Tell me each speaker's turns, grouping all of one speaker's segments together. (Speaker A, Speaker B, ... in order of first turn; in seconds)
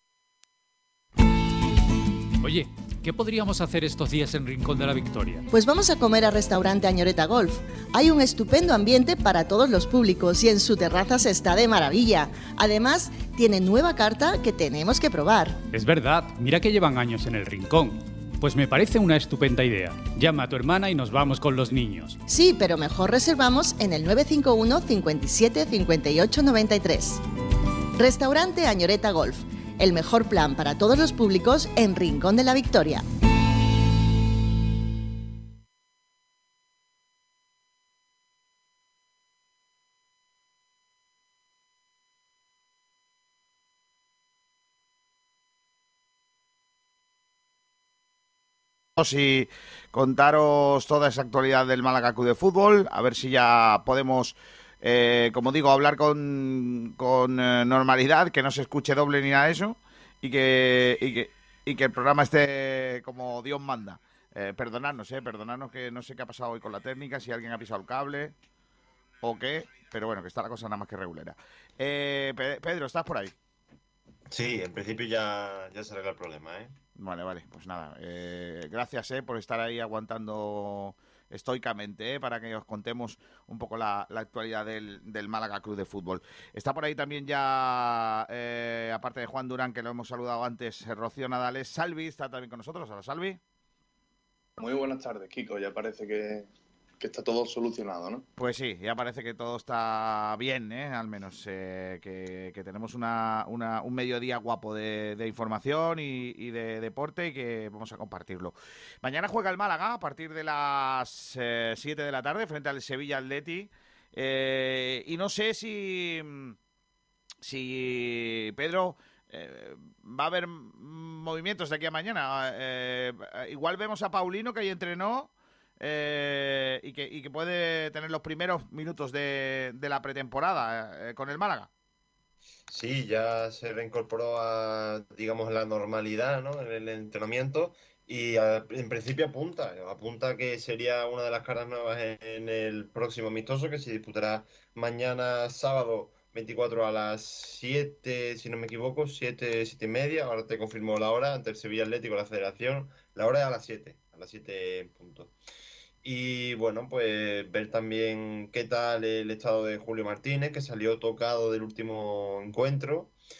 Speaker A: 2.4-5.4, 15.7-22.2
Speaker B: 5.5-15.6, 22.3-27.2, 27.9-33.0
Speaker C: 49.0-68.3, 69.2-73.3, 77.0-93.4, 98.4-116.5, 117.4-131.7
Speaker D: 74.3-76.7, 132.7-155.3, 156.0-163.1
Speaker E: 94.6-96.5, 97.0-98.2